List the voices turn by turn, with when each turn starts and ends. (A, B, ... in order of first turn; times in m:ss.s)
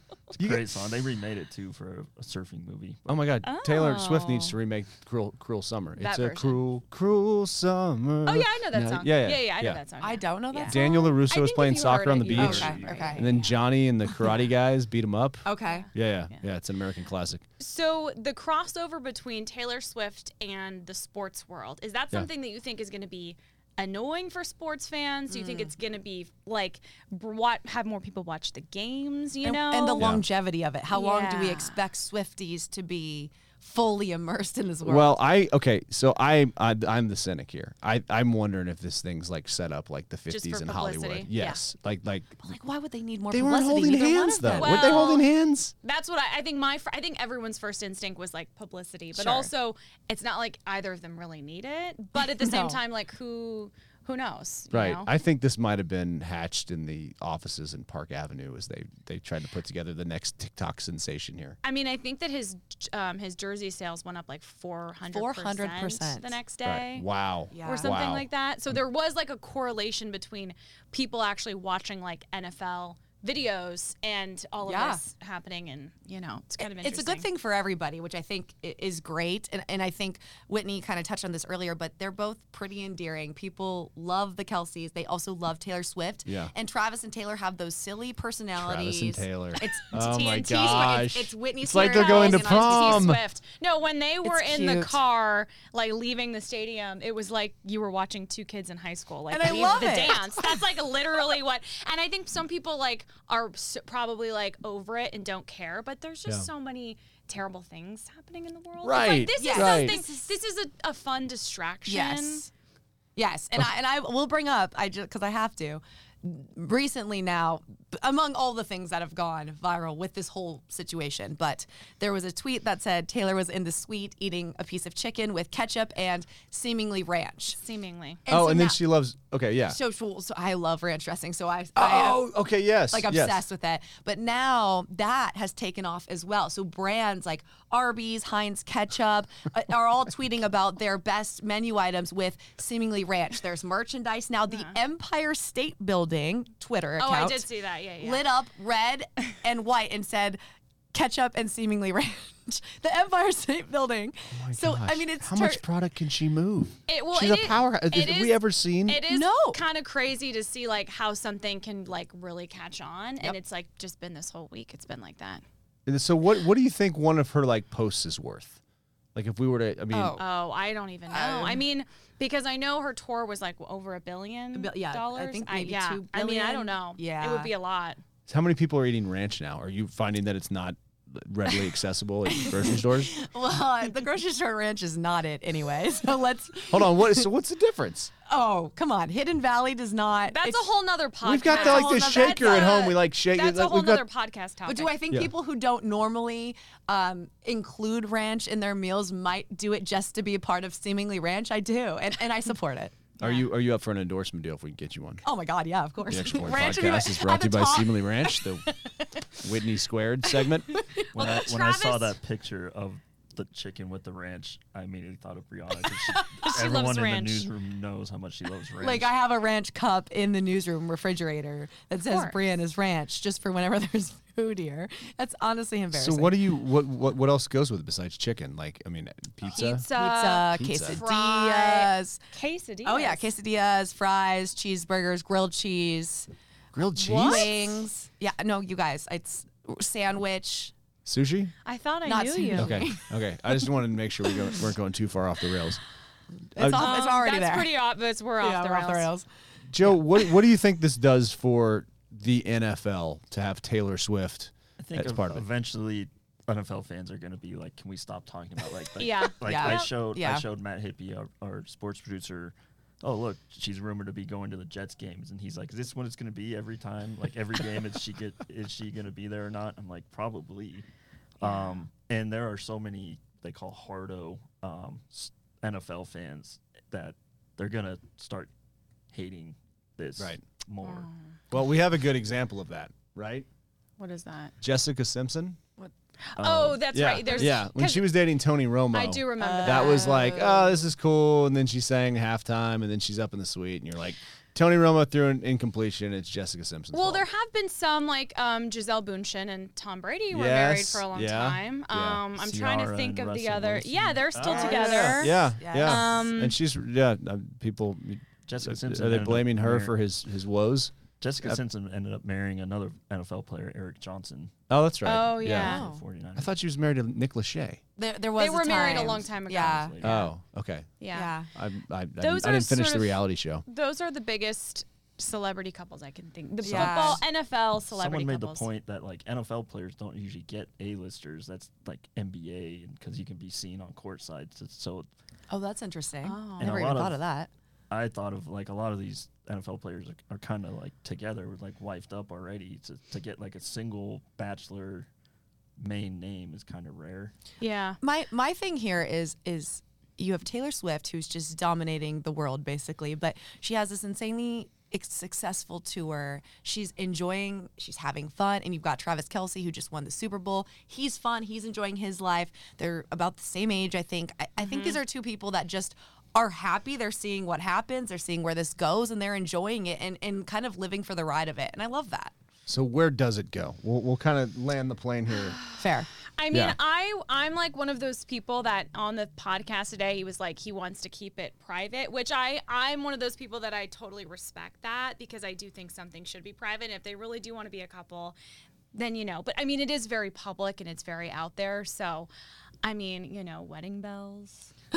0:00.4-0:00.7 A
0:00.4-0:03.0 B
0:03.1-0:09.8 A
0:03.4-0:04.6 C
0:06.0-0:06.6 C
0:08.2-0:13.6 C
0:10.0-0:11.1 D
0:10.6-0:17.4 A
0:12.4-0:13.3 D
0:12.4-0:13.1 B
0:15.4-0:15.9 D
0:15.7-0:16.4 C
0:17.6-0:30.0 C
0:25.3-0:25.7 D
0:29.4-0:35.2 D
0:30.0-0:30.3 A
0:30.9-0:31.8 C
0:34.8-0:42.4 A
0:40.3-0:41.6 C
0:42.4-0:45.2 D
0:43.3-0:45.7 A
0:44.5-0:45.3 C
0:45.8-0:55.1 C
0:49.1-0:49.5 D
0:52.2-0:52.8 D
0:54.7-1:01.6 A
1:01.6-1:17.3 C
1:05.1-1:06.4 D
1:06.6-1:08.8 A
1:07.5-1:08.0 D
1:14.6-1:15.0 D
1:16.6-1:33.2 D
1:26.2-1:26.5 A
1:28.6-1:33.2 A
1:29.9-1:31.1 C
1:31.8-1:52.5 C
1:34.2-1:35.0 D
1:39.3-1:40.6 D
1:48.8-1:50.0 A
1:49.3-1:50.1 D
1:51.9-1:52.5 D
1:53.2-2:07.6 D
2:07.5-2:08.2 C
2:08.3-2:08.8 D
2:08.3-2:09.8 A
2:09.7-2:12.3 D
2:11.8-2:13.4 A
2:12.9-2:27.5 D
2:24.5-2:24.8 C
2:27.0-2:28.3 C
2:28.0-2:30.4 D
2:30.9-2:35.6 D
2:34.3-2:39.0 A
2:36.9-2:45.4 C
2:39.1-2:39.6 D
2:45.9-2:48.6 A
2:49.2-2:50.2 A
2:49.9-2:50.3 D
2:50.2-2:58.0 C
2:51.1-2:51.6 D
2:54.5-2:57.5 D
2:58.3-3:03.1 A
3:02.3-3:07.3 D
3:06.7-3:08.1 A
3:08.3-3:10.7 D
3:10.3-3:14.9 C
3:11.2-3:14.1 A
3:11.5-3:12.8 D
3:14.6-3:23.4 D
3:23.2-3:25.2 A
3:25.2-3:28.5 D
3:26.1-3:28.7 A
3:29.4-3:30.8 A
3:30.3-3:31.2 D
3:31.1-3:39.2 B
3:31.2-3:32.2 C
3:36.4-3:37.5 C
3:38.8-3:46.4 D
3:42.0-3:42.4 C
3:45.9-3:49.9 A
3:49.5-3:53.3 C
3:49.9-3:52.2 D
3:50.6-3:51.0 A
3:52.8-3:56.3 D
3:56.7-3:57.6 A
3:57.0-4:00.7 D
3:57.2-3:57.7 C
4:01.0-4:01.5 A
4:01.6-4:02.8 C
4:02.0-4:03.1 D
4:02.6-4:05.8 A
4:06.6-4:07.0 A
4:06.6-4:07.8 D
4:06.8-4:09.1 C
4:08.4-4:09.3 D
4:09.7-4:15.4 A
4:09.8-4:10.3 D
4:14.8-4:30.9 B
4:19.0-4:19.9 C
4:19.4-4:20.4 D
4:31.4-4:38.5 B
4:31.4-4:31.9 C
4:39.1-4:41.1 B
4:40.8-4:41.2 C
4:41.5-4:43.5 A
4:44.0-4:44.5 C
4:44.6-4:45.6 A
4:46.2-4:48.2 C
4:46.4-4:47.4 B
4:46.9-4:57.3 A
4:48.9-4:50.3 C
4:49.4-4:50.8 D
4:56.9-5:06.6 C
5:00.3-5:02.2 A
5:02.4-5:04.8 B
5:04.4-5:06.2 D
5:04.6-5:11.6 A
5:08.5-5:10.0 B
5:11.2-5:14.5 B
5:14.7-5:15.8 A
5:15.0-5:15.9 C
5:15.5-5:16.5 B
5:15.6-5:16.0 D
5:16.4-5:17.8 A
5:18.0-5:20.3 D
5:18.4-5:19.9 C
5:19.5-5:20.1 B
5:20.0-5:21.0 A
5:21.0-5:21.4 C
5:21.1-5:21.5 D
5:21.5-5:23.6 A
5:22.2-5:28.7 C
5:26.6-5:27.2 D
5:26.6-5:27.2 A
5:27.9-5:35.1 B
5:35.5-5:37.5 D
5:36.2-5:36.8 C
5:36.6-5:37.2 B
5:37.9-5:45.1 B
5:45.8-5:47.3 B
5:47.6-5:48.0 C
5:48.0-6:12.3 D
6:04.6-6:05.0 C
6:12.7-6:15.6 A
6:15.8-6:16.1 D
6:16.4-6:28.4 C
6:16.5-6:16.8 A
6:28.9-6:32.3 C
6:32.8-6:34.7 C